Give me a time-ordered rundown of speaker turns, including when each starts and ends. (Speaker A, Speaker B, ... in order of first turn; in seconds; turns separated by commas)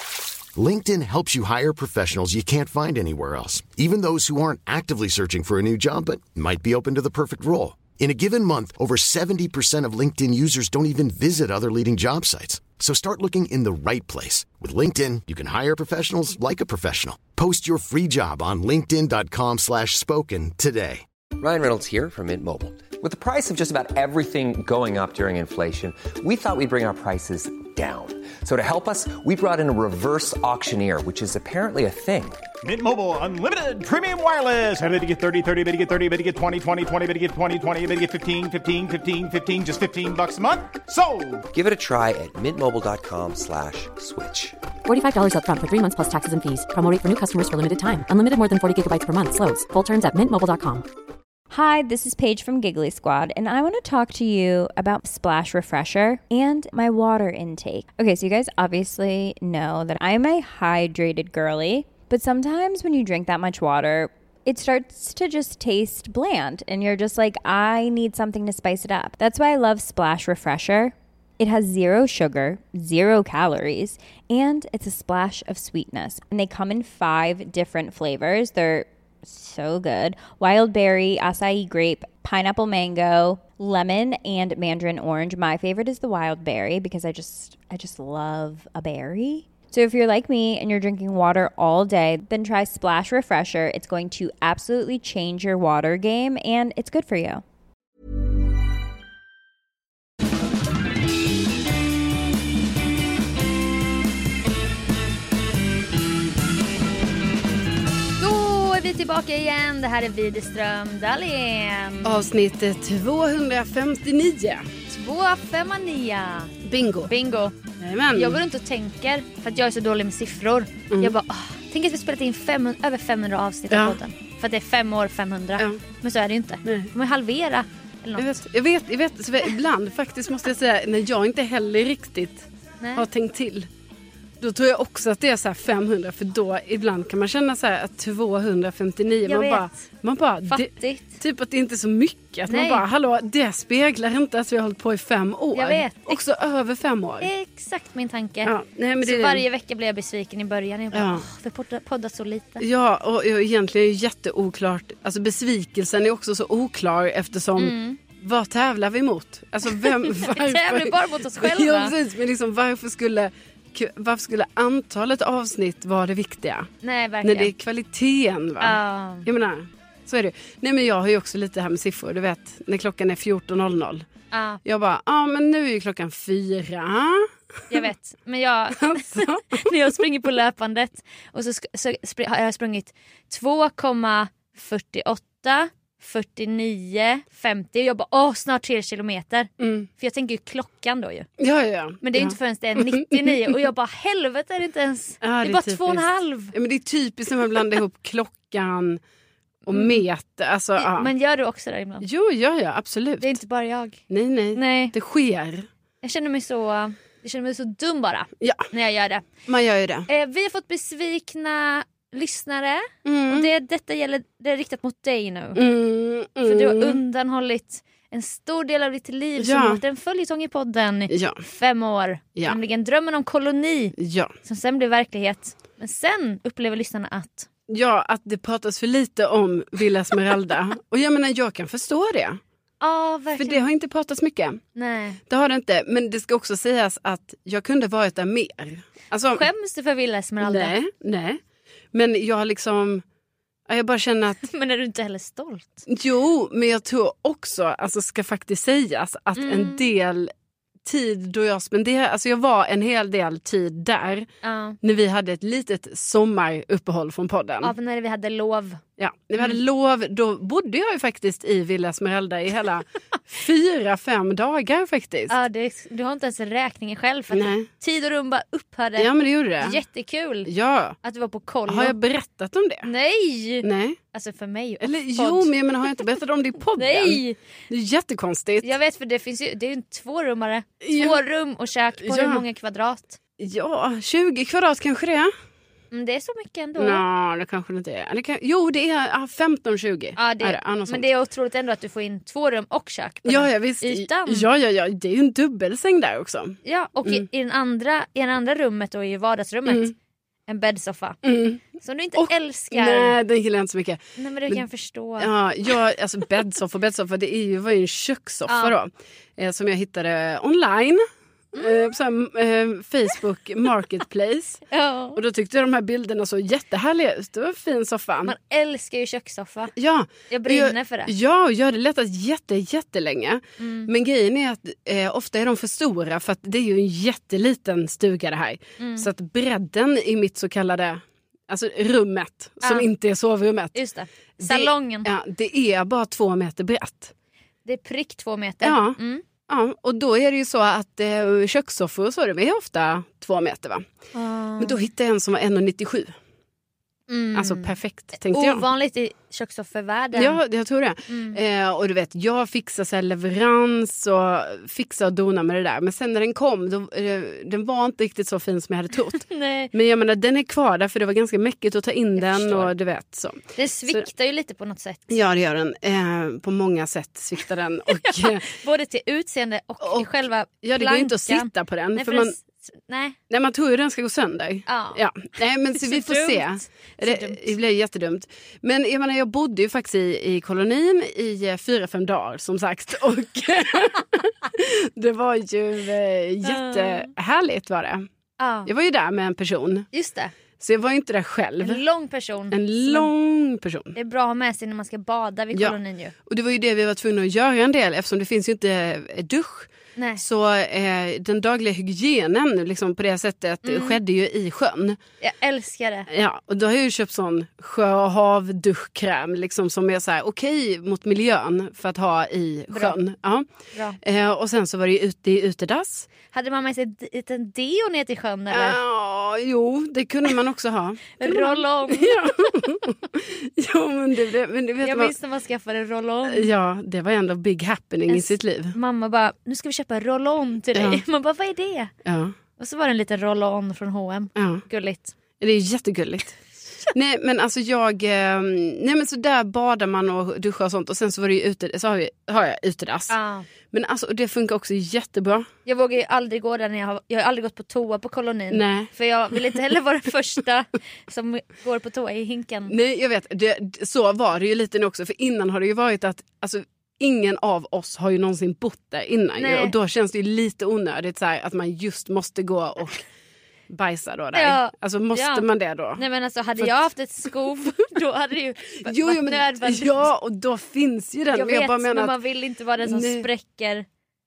Speaker A: 0.6-21.0, Speaker B: 21.4-32.4, Speaker C: 32.6-41.5, Speaker B: 41.5-44.5, Speaker D: 44.9-50.8, Speaker E: 51.5-97.4, Speaker F: 108.2-112.2, Speaker G: 112.0-114.7, Speaker F: 114.9-117.5, Speaker G: 116.6-117.1, Speaker G: 117.8-118.4, Speaker F: 118.1-128.3, Speaker G: 120.9-121.2, Speaker G: 123.7-124.0, Speaker G: 126.6-126.9, Speaker G: 128.2-133.7, Speaker F: 132.8-133.1, Speaker G: 134.4-147.3, Speaker F: 139.2-139.8, Speaker F: 140.5-141.2, Speaker F: 142.5-142.8, Speaker F: 145.5-146.2, Speaker F: 147.2-152.6, Speaker G: 148.4-149.4, Speaker G: 150.9-151.2, Speaker G: 152.6-166.7, Speaker F: 157.6-158.0, Speaker F: 159.7-161.9, Speaker F: 166.8-167.5, Speaker G: 167.2-174.1, Speaker F: 168.6-169.3, Speaker F: 174.3-174.6, Speaker G: 174.6-177.3, Speaker F: 177.7-191.3, Speaker G: 178.8-179.7, Speaker G: 189.6-189.9, Speaker G: 191.4-193.6, Speaker F: 192.0-196.5, Speaker G: 195.2-199.0, Speaker F: 199.7-200.0, Speaker G: 199.7-201.1, Speaker F: 200.8-202.1, Speaker G: 202.0-203.4, Speaker F: 203.2-204.0, Speaker G: 204.1-205.7, Speaker F: 204.5-204.9, Speaker F: 206.0-209.2, Speaker G: 208.4-208.7, Speaker G: 209.4-210.1, Speaker F: 210.1-215.6, Speaker G: 213.0-213.5, Speaker G: 215.5-217.0, Speaker F: 216.4-223.9, Speaker G: 219.4-219.8, Speaker G: 221.1-221.4, Speaker G: 224.0-224.3, Speaker F: 224.4-227.5, Speaker G: 227.7-232.4, Speaker F: 232.8-233.6, Speaker G: 233.4-234.6, Speaker F: 234.8-235.2, Speaker G: 235.3-239.4, Speaker F: 239.3-240.8, Speaker G: 240.4-241.4, Speaker G: 241.9-243.0, Speaker G: 243.7-244.4, Speaker F: 244.4-245.8, Speaker G: 245.9-250.3, Speaker F: 249.3-249.9, Speaker G: 250.8-254.3, Speaker F: 254.4-254.8, Speaker G: 254.8-257.7, Speaker F: 257.6-258.8, Speaker G: 259.0-265.4, Speaker F: 265.3-269.1, Speaker G: 267.3-267.7, Speaker G: 269.0-269.8, Speaker F: 269.6-270.5, Speaker G: 270.4-271.0, Speaker F: 271.0-271.9, Speaker G: 271.6-272.9, Speaker F: 272.8-275.5, Speaker G: 273.6-274.0, Speaker G: 274.8-278.7, Speaker F: 276.8-277.4, Speaker F: 278.6-283.2, Speaker G: 280.8-281.2, Speaker G: 282.0-282.4, Speaker G: 283.4-285.3, Speaker F: 285.9-287.0, Speaker G: 286.8-291.1, Speaker F: 290.2-294.5, Speaker G: 293.2-297.2, Speaker F: 296.6-299.9, Speaker G: 299.6-299.9, Speaker F: 300.5-301.2, Speaker G: 301.2-301.6, Speaker F: 301.8-303.2, Speaker G: 302.1-304.6, Speaker F: 304.2-305.3, Speaker G: 305.2-311.0, Speaker F: 308.5-308.7, Speaker F: 311.6-311.9, Speaker G: 311.6-318.3, Speaker F: 314.7-315.2, Speaker F: 318.2-319.7, Speaker G: 319.7-333.8, Speaker F: 320.3-321.1, Speaker F: 323.6-323.9, Speaker F: 328.8-329.1, Speaker F: 333.7-335.1, Speaker G: 334.4-337.1, Speaker F: 337.6-339.2, Speaker G: 338.6-343.9, Speaker F: 344.1-344.8, Speaker G: 344.6-346.1, Speaker F: 347.1-350.4, Speaker G: 347.3-348.6, Speaker G: 350.1-364.1, Speaker F: 351.1-351.4, Speaker F: 359.2-359.7, Speaker F: 362.2-362.7, Speaker F: 363.6-365.2, Speaker G: 365.1-368.5, Speaker F: 367.9-373.1, Speaker G: 369.8-370.1, Speaker G: 370.6-372.3, Speaker G: 373.3-388.1, Speaker F: 374.7-375.0, Speaker F: 375.7-377.5, Speaker F: 386.4-387.1, Speaker F: 388.4-388.7, Speaker G: 388.6-389.9, Speaker F: 389.9-390.3, Speaker G: 390.6-391.8, Speaker F: 391.6-393.1, Speaker G: 392.5-393.9, Speaker F: 393.9-396.1, Speaker G: 395.5-405.0, Speaker F: 400.0-400.2, Speaker F: 403.6-404.0, Speaker F: 405.2-406.1, Speaker G: 406.1-413.5, Speaker F: 412.7-413.0, Speaker F: 413.7-414.0, Speaker G: 414.0-416.1, Speaker F: 416.3-418.8, Speaker G: 418.5-425.1, Speaker F: 421.2-422.2, Speaker F: 424.8-426.5, Speaker G: 426.3-428.7, Speaker F: 428.1-431.9, Speaker G: 430.7-431.0, Speaker G: 432.0-432.3, Speaker F: 432.6-435.1, Speaker G: 434.4-434.6, Speaker G: 435.4-436.4, Speaker G: 436.9-443.1, Speaker F: 443.1-443.5, Speaker G: 443.7-445.5, Speaker F: 445.6-452.7, Speaker G: 448.5-448.9, Speaker G: 452.7-463.0, Speaker F: 459.4-459.7, Speaker G: 463.7-466.0, Speaker F: 464.3-465.4, Speaker F: 466.0-470.1, Speaker G: 468.8-472.1, Speaker F: 471.3-473.9, Speaker G: 472.8-473.3